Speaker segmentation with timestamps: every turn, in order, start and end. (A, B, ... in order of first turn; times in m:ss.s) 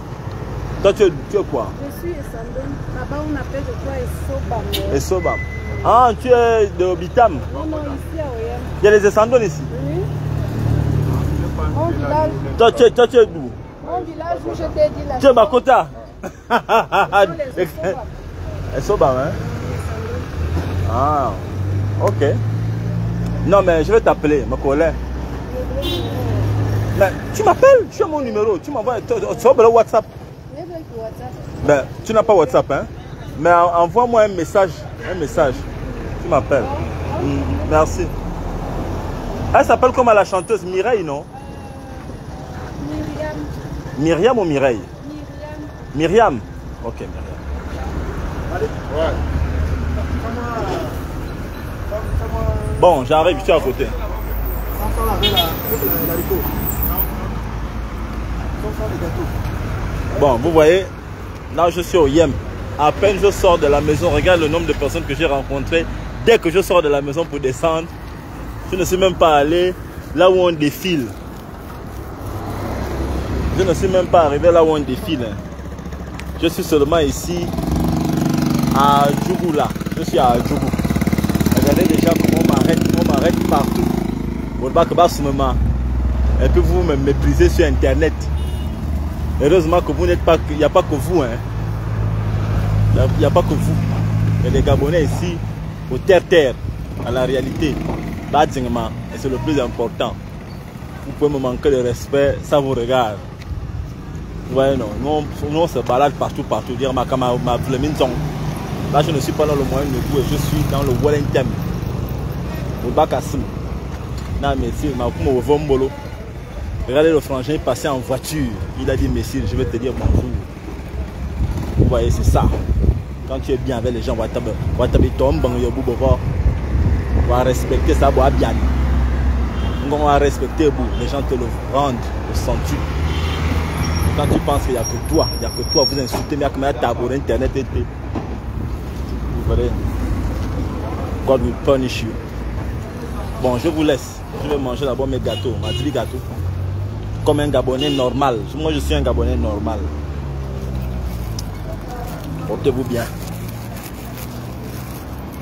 0:00.8-0:01.8 A
0:01.8-0:05.0 B
0:04.9-0:07.5 A
0:05.6-0:06.0 B
0:07.5-0:08.0 C
0:07.5-0:08.8 B
0:08.8-0:09.7 A
0:09.7-0:10.1 B
0:11.0-0:12.9 C
0:11.7-0:12.5 B
0:12.6-0:13.6 A
0:13.8-0:15.6 B
0:13.8-0:14.8 C
0:15.2-0:18.0 A
0:17.0-0:18.1 B
0:18.7-0:19.4 A
0:19.4-0:20.3 B
0:20.8-0:21.5 A
0:22.0-0:22.4 A
0:23.4-0:25.0 A
0:25.4-0:26.5 B
0:27.0-0:30.1 A
0:28.0-0:29.4 B
0:30.5-0:32.6 B
0:31.6-0:35.6 A
0:35.3-0:37.8 B
0:36.2-0:38.1 A
0:39.5-0:41.3 A
0:42.8-0:43.5 B
0:44.0-0:44.9 A
0:45.0-0:45.8 B
0:45.9-0:47.4 A
0:48.8-0:49.2 C
0:51.9-0:52.7 C
0:52.8-0:54.0 A
1:00.1-1:00.9 A
1:01.5-1:07.9 A
1:08.7-1:11.2 A
1:13.5-1:15.4 A
1:16.4-1:17.5 A
1:18.7-1:20.8 A
1:21.5-1:23.9 A
1:24.6-1:25.6 A
1:26.4-1:28.3 A
1:29.4-1:31.4 A
1:32.9-1:33.8 A
1:34.4-1:40.2 A
1:41.0-1:43.3 A
1:44.5-1:48.2 A
1:48.9-1:51.7 A
1:52.8-1:53.5 A
1:54.4-1:55.9 A
1:56.9-2:00.5 A
2:01.8-2:02.6 A
2:03.3-2:06.2 A
2:07.2-2:08.7 A
2:09.8-2:12.9 A
2:14.1-2:17.9 A
2:19.3-2:19.8 A
2:21.2-2:22.2 A
2:23.4-2:26.3 A
2:27.2-2:29.9 A
2:32.4-2:33.1 A